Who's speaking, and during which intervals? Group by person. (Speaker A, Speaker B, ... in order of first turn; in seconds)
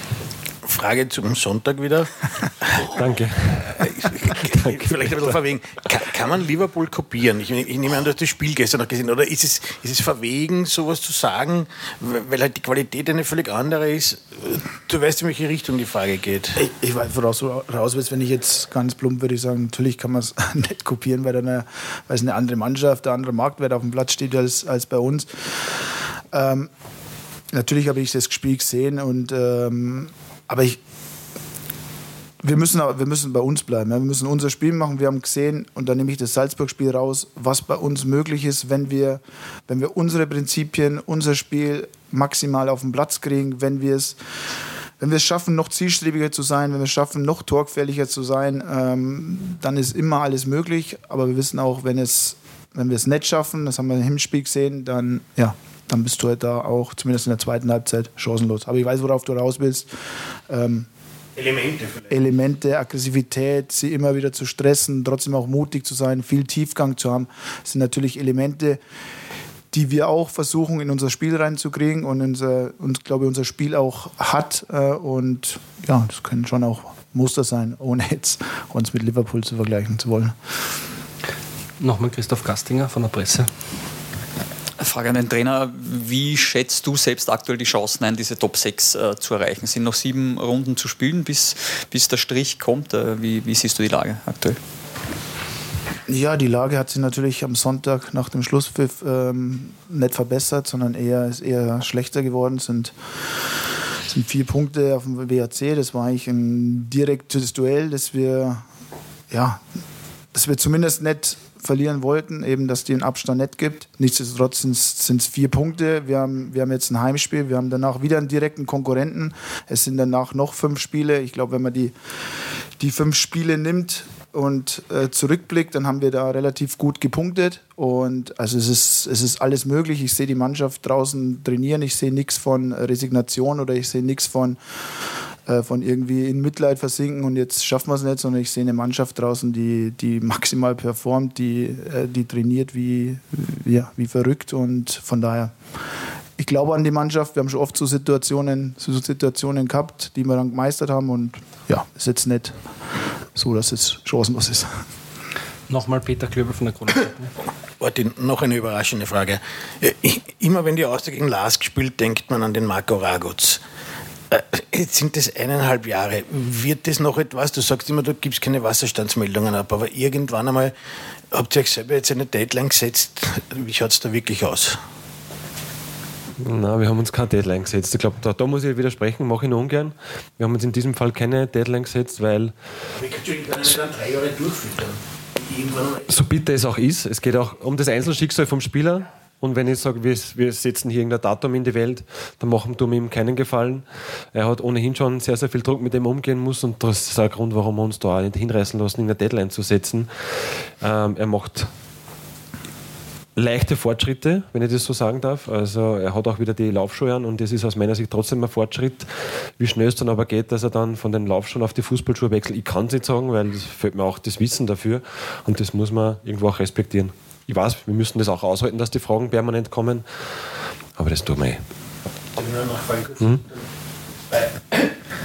Speaker A: 0.6-2.9, 3.8-16.6, 61.4-62.1, 157.8-163.6, 164.3-170.7, 171.3-174.8, 183.0-186.1, 222.4-223.3
Speaker B: 2.9-3.7, 4.5-5.3, 176.4-182.6, 186.1-200.1, 200.8-201.7, 203.4-220.1, 221.0-221.6
Speaker C: 16.6-26.7, 27.5-30.8, 32.4-44.2, 45.0-59.9, 60.5-60.9, 62.1-68.8, 69.7-80.4, 96.1-103.0, 104.1-108.7, 109.3-109.6, 110.3-121.9, 122.8-134.6, 135.5-145.5, 146.4-152.6, 153.3-154.7
Speaker D: 81.8-83.5, 155.7-157.3
Speaker E: 84.8-94.6